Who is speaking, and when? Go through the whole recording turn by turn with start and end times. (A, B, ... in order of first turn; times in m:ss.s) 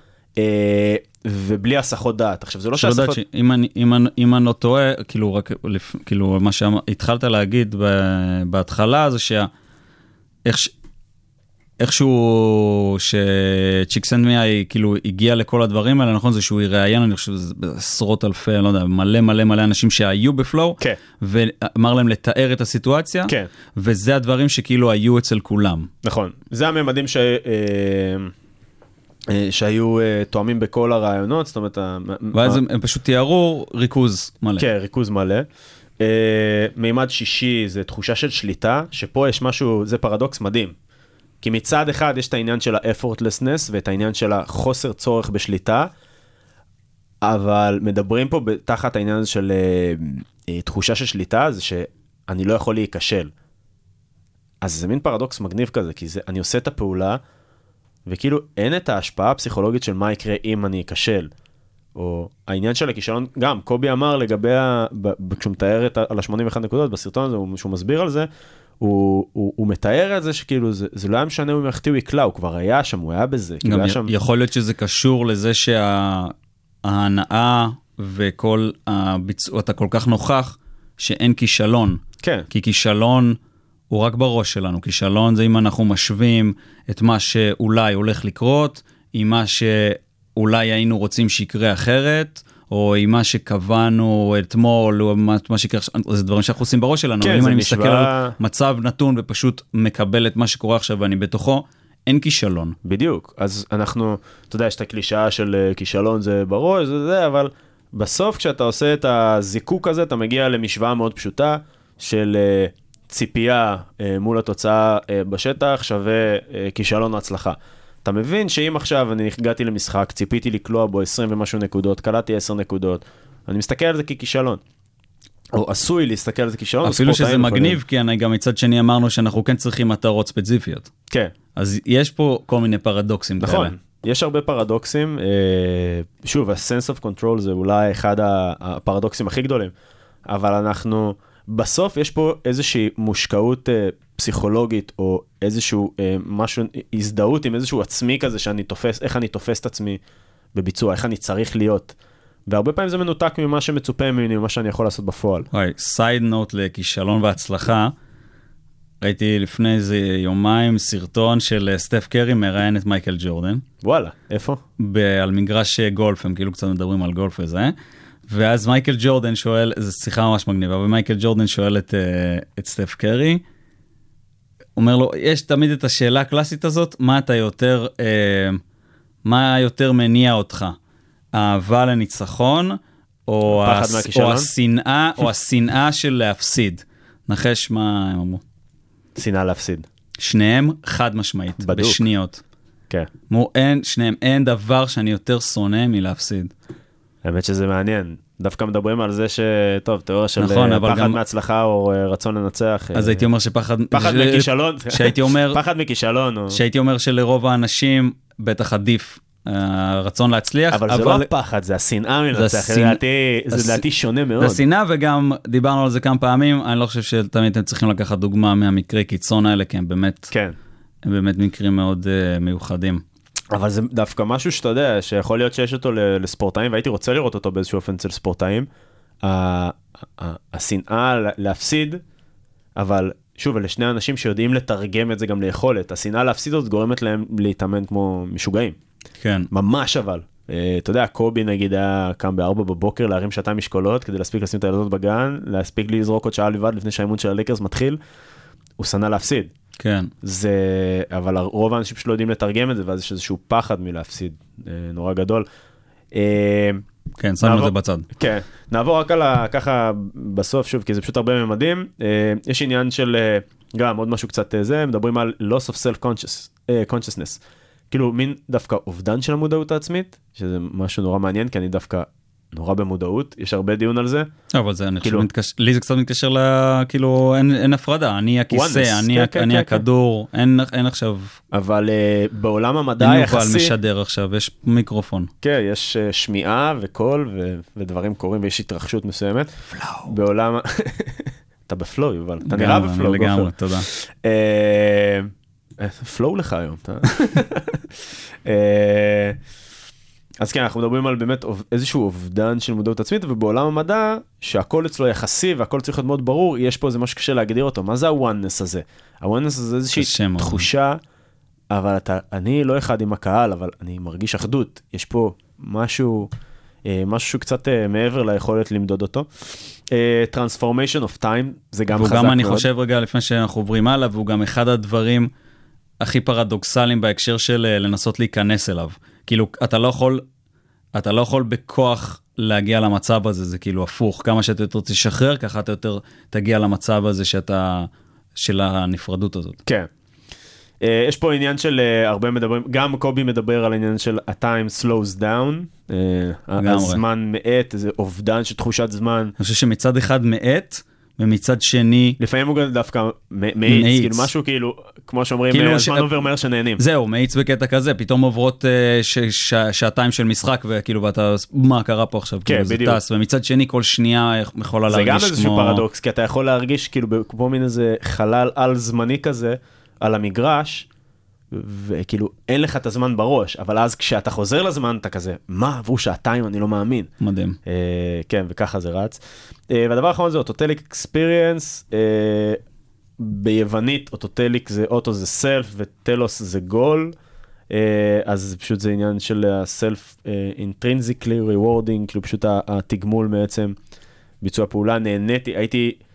0:00.4-0:03.2 A
0:02.8-0:09.5 B
0:10.4-0:10.7 B
0:11.8-0:25.9 B
0:26.0-0:28.3 A
0:29.3-0:32.6 A
0:32.3-0:34.7 B
0:34.6-0:35.5 A
0:36.0-0:40.7 A
0:41.4-0:45.9 A
0:47.2-0:53.3 A
0:54.6-0:57.2 A
0:58.1-1:01.3 A
1:02.0-1:08.3 A
1:08.8-1:14.1 A
1:13.6-1:23.4 B
1:22.2-1:22.5 A
1:23.9-1:42.7 B
1:37.2-1:38.4 A
1:42.8-2:04.6 A
2:05.5-2:07.8 A
2:06.8-2:10.9 B
2:11.6-2:13.8 B
2:13.4-2:19.7 A
2:20.2-2:30.0 A
2:30.5-2:32.0 A
2:32.5-2:35.5 A
2:35.5-2:37.9 B
2:39.0-2:43.6 B
2:43.8-2:44.6 A
2:44.8-2:47.7 B
2:48.3-2:53.4 B
2:54.8-2:58.6 B
2:59.2-3:00.8 B
3:01.3-3:08.4 B
3:03.5-3:04.5 A
3:09.1-3:09.9 A
3:10.2-3:12.4 B
3:11.6-3:12.0 A
3:13.3-3:16.5 B
3:17.2-3:23.2 A
3:20.4-3:21.2 B
3:22.9-3:25.6 B
3:23.9-3:26.6 A
3:26.5-3:31.3 B
3:30.7-3:34.6 A
3:32.3-3:33.0 B
3:33.5-3:33.8 B
3:34.4-3:40.3 B
3:40.3-3:40.6 A
3:41.0-3:43.0 B
3:43.5-3:48.7 A
3:49.2-3:52.0 A
3:52.8-3:58.8 A
3:59.2-3:59.5 B
3:59.5-4:08.0 A
4:08.8-4:09.5 A
4:09.8-4:10.1 B
4:10.2-4:15.4 A
4:16.1-4:16.8 A
4:17.2-4:18.1 B
4:17.4-4:34.3 A
4:34.5-4:41.4 B
4:35.0-4:35.3 A
4:38.5-4:39.8 A
4:41.5-4:43.7 A
4:43.0-4:45.3 B
4:45.4-4:49.5 A
4:49.8-4:50.1 B
4:50.0-4:59.4 A
4:52.4-4:53.9 B
5:00.4-5:11.0 A
5:10.0-5:10.7 B
5:11.7-5:16.3 A
5:16.8-5:22.7 A
5:21.9-5:25.3 B
5:26.0-5:30.2 B
5:30.9-5:39.6 B
5:40.8-5:49.4 A
5:46.6-5:47.0 B
5:49.4-5:52.2 B
5:52.2-5:56.8 A
5:53.7-5:54.3 B
5:55.5-5:56.1 B
5:56.8-6:05.8 B
6:02.4-6:03.0 A
6:04.9-6:10.9 A
6:11.5-6:17.1 A
6:17.2-6:17.6 B
6:17.7-6:22.6 A
6:23.2-6:27.1 A
6:27.7-6:33.8 A
6:34.4-6:36.0 A